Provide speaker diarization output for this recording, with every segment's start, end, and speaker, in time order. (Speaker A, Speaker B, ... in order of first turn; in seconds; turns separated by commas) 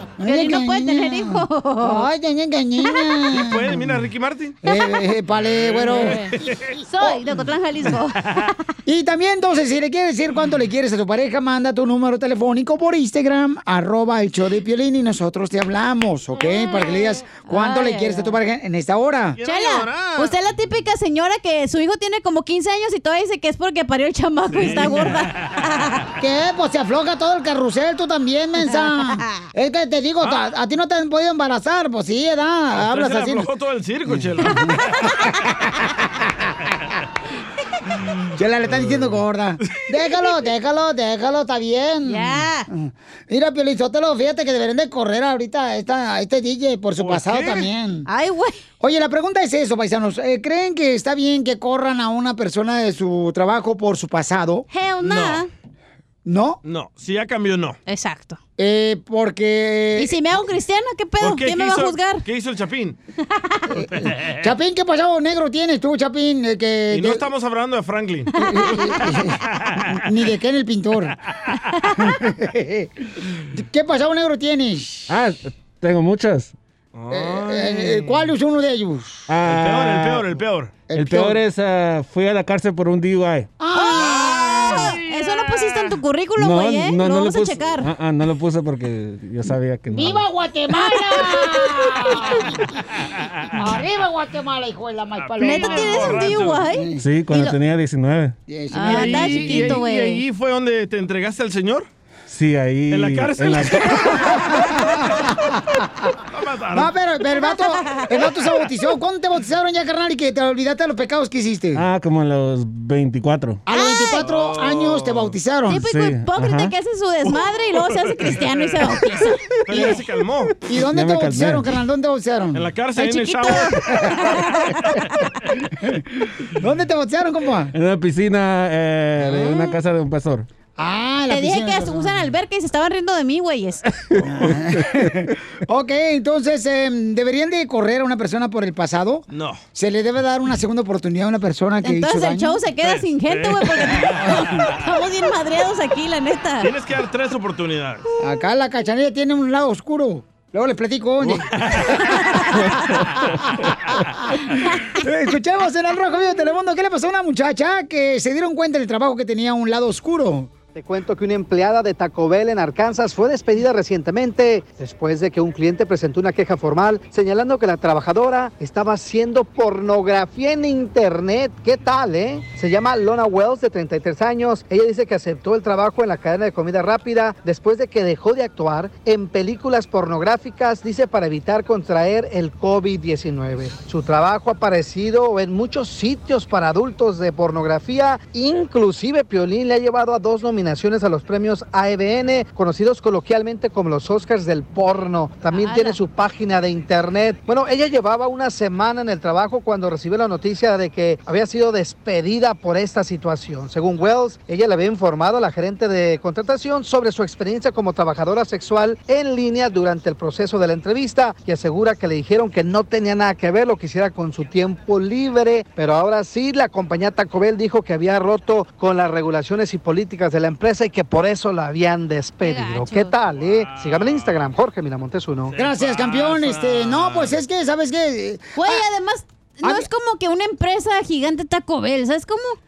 Speaker A: 0.2-4.0, Speaker B: 0.2-2.1, Speaker C: 3.3-4.6, Speaker A: 4.6-6.3, Speaker C: 5.3-6.8, Speaker B: 5.9-6.3, Speaker B: 6.8-8.2, Speaker A: 8.8-19.4, Speaker B: 17.3-18.3, Speaker C: 19.4-20.3, Speaker B: 19.4-25.8, Speaker C: 24.5-25.6, Speaker A: 26.2-33.5, Speaker C: 32.7-34.8, Speaker A: 34.1-34.7, Speaker A: 38.4-48.1, Speaker C: 38.7-39.1, Speaker B: 42.0-42.7, Speaker C: 47.0-47.7, Speaker B: 48.1-48.6, Speaker A: 48.8-54.6, Speaker B: 54.7-55.5, Speaker C: 55.0-55.5, Speaker A: 56.2-56.6, Speaker C: 56.6-57.8, Speaker B: 57.9-58.4, Speaker A: 58.6-60.1, Speaker B: 60.0-62.2, Speaker C: 61.2-63.0, Speaker A: 63.7-67.2, Speaker C: 63.9-64.5, Speaker C: 66.9-68.3, Speaker A: 68.4-69.4, Speaker C: 69.5-70.0, Speaker A: 69.9-71.2, Speaker A: 72.0-72.9, Speaker A: 73.5-75.1, Speaker D: 75.1-76.5, Speaker C: 76.9-78.3, Speaker A: 77.1-79.3, Speaker D: 79.3-80.3, Speaker C: 79.5-80.8, Speaker A: 80.9-81.4, Speaker D: 80.9-83.5, Speaker A: 83.6-84.9, Speaker B: 83.7-87.9, Speaker C: 83.9-85.6, Speaker D: 86.4-90.2, Speaker A: 89.9-92.8, Speaker B: 90.7-92.3, Speaker A: 93.5-97.0, Speaker C: 95.2-96.7, Speaker B: 95.4-97.5, Speaker D: 97.0-98.3, Speaker A: 98.5-99.8, Speaker B: 98.7-100.2, Speaker C: 98.8-101.9, Speaker D: 102.3-103.7, Speaker C: 102.9-105.3, Speaker B: 103.8-104.2, Speaker A: 103.9-105.5, Speaker C: 106.3-107.0, Speaker A: 106.7-111.8, Speaker B: 107.4-108.2, Speaker D: 111.7-113.6, Speaker A: 113.7-115.8, Speaker B: 113.7-114.2, Speaker C: 114.2-115.3, Speaker B: 115.7-119.4, Speaker D: 115.8-116.7, Speaker C: 117.3-119.0, Speaker C: 119.7-120.5, Speaker A: 119.7-120.0, Speaker A: 120.6-122.7, Speaker D: 120.8-121.6, Speaker C: 122.5-124.1, Speaker B: 123.0-124.8, Speaker A: 126.5-127.7, Speaker D: 127.7-130.5, Speaker A: 129.2-129.6, Speaker A: 130.8-132.3, Speaker B: 131.3-133.8, Speaker A: 134.2-142.6, Speaker C: 139.3-139.6, Speaker B: 141.8-146.7, Speaker C: 142.8-144.8, Speaker C: 146.6-148.1, Speaker A: 148.2-151.5, Speaker C: 151.2-152.0, Speaker A: 154.9-160.5, Speaker E: 160.7-225.5, Speaker B: 195.5-196.0, Speaker B: 222.4-223.1, Speaker C: 223.4-224.5, Speaker C: 225.5-227.4, Speaker A: 225.6-228.8, Speaker B: 228.6-232.6, Speaker A: 229.6-229.9